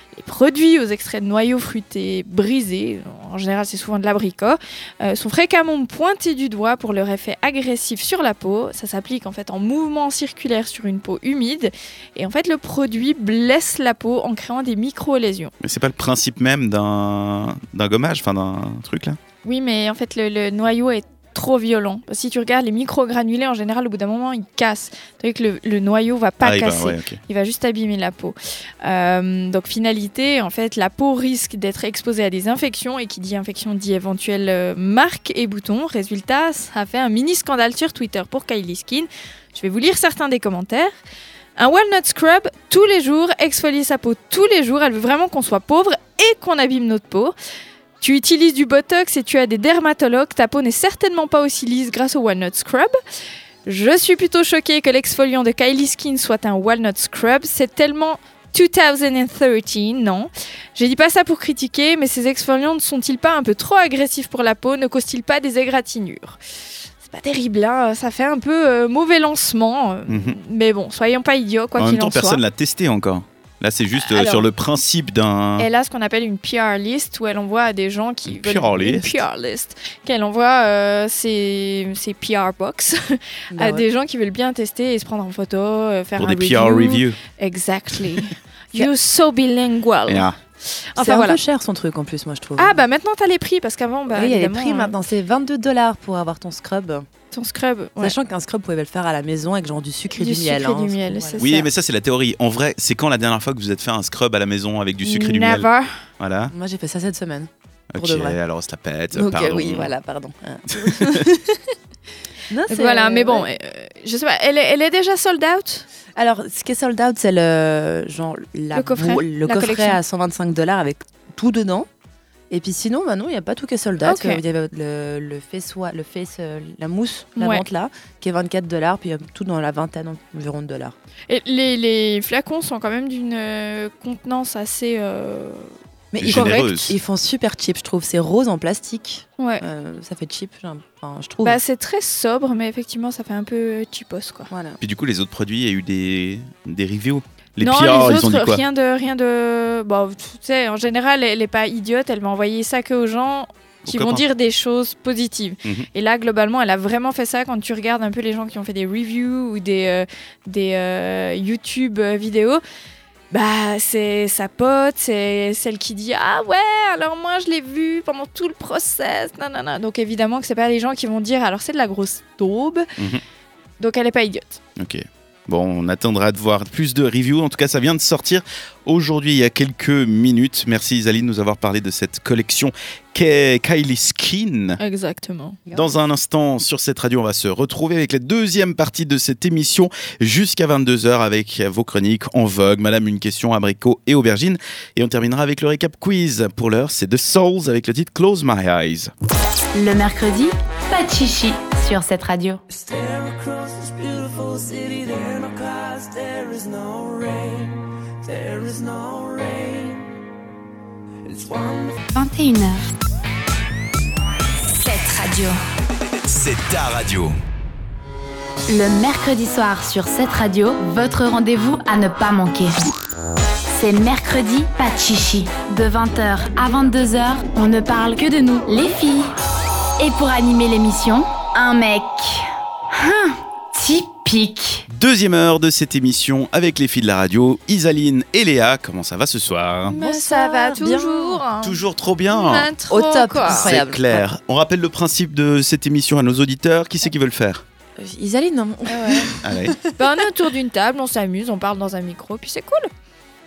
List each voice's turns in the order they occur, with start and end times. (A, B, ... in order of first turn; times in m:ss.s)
0:00.2-0:15.5 A
0:15.6-0:19.2 B
0:19.4-0:40.9 A
0:26.4-0:27.2 B
0:41.6-0:47.4 A
0:48.0-0:53.0 A
0:53.6-1:06.4 A
1:07.0-1:12.4 A
1:10.1-1:10.4 B
1:11.8-1:15.7 B
1:14.0-1:14.5 A
1:15.6-1:31.4 A
1:18.3-1:19.2 B
1:23.5-1:23.8 C
1:26.2-1:27.2 B
1:30.1-1:30.4 B
1:31.0-1:32.8 C
1:32.6-1:34.9 A
1:34.1-1:37.1 C
1:37.3-1:38.2 A
1:38.0-1:41.7 C
1:40.2-1:41.6 A
1:41.4-1:45.7 B
1:45.0-1:45.9 A
1:46.2-1:46.5 B
1:46.5-1:48.4 C
1:47.9-1:49.9 B
1:49.1-1:51.4 C
1:50.7-1:51.2 B
1:52.5-1:53.5 C
1:52.7-1:55.8 A
1:56.2-2:01.9 C
1:58.7-2:00.0 A
2:02.5-2:10.9 C
2:04.0-2:04.4 A
2:07.4-2:07.6 A
2:11.3-2:15.7 A
2:16.1-2:21.6 C
2:16.2-2:16.9 B
2:16.3-2:16.7 A
2:19.4-2:19.6 A
2:21.4-2:24.5 A
2:24.5-2:24.8 C
2:24.8-2:28.6 B
2:27.6-2:42.6 A
2:33.9-2:34.2 B
2:43.3-2:52.9 A
2:53.8-2:54.6 A
2:54.8-3:04.8 B
3:04.8-3:05.6 A
3:05.7-3:05.9 C
3:05.7-3:19.1 B
3:19.7-3:22.6 D
3:22.7-3:30.0 E
3:31.3-3:32.0 E
3:32.1-3:32.8 D
3:34.8-3:35.6 D
3:36.2-3:37.4 B
3:38.7-3:42.8 D
3:43.7-3:49.3 D
3:50.0-3:54.9 D
3:54.9-4:00.0 B
3:59.9-4:03.7 A
3:59.9-4:01.4 C
4:01.6-4:02.7 B
4:02.9-4:04.2 C
4:03.5-4:07.6 B
4:08.0-4:09.8 C
4:08.9-4:09.3 A
4:09.4-4:09.8 B
4:10.0-4:12.9 A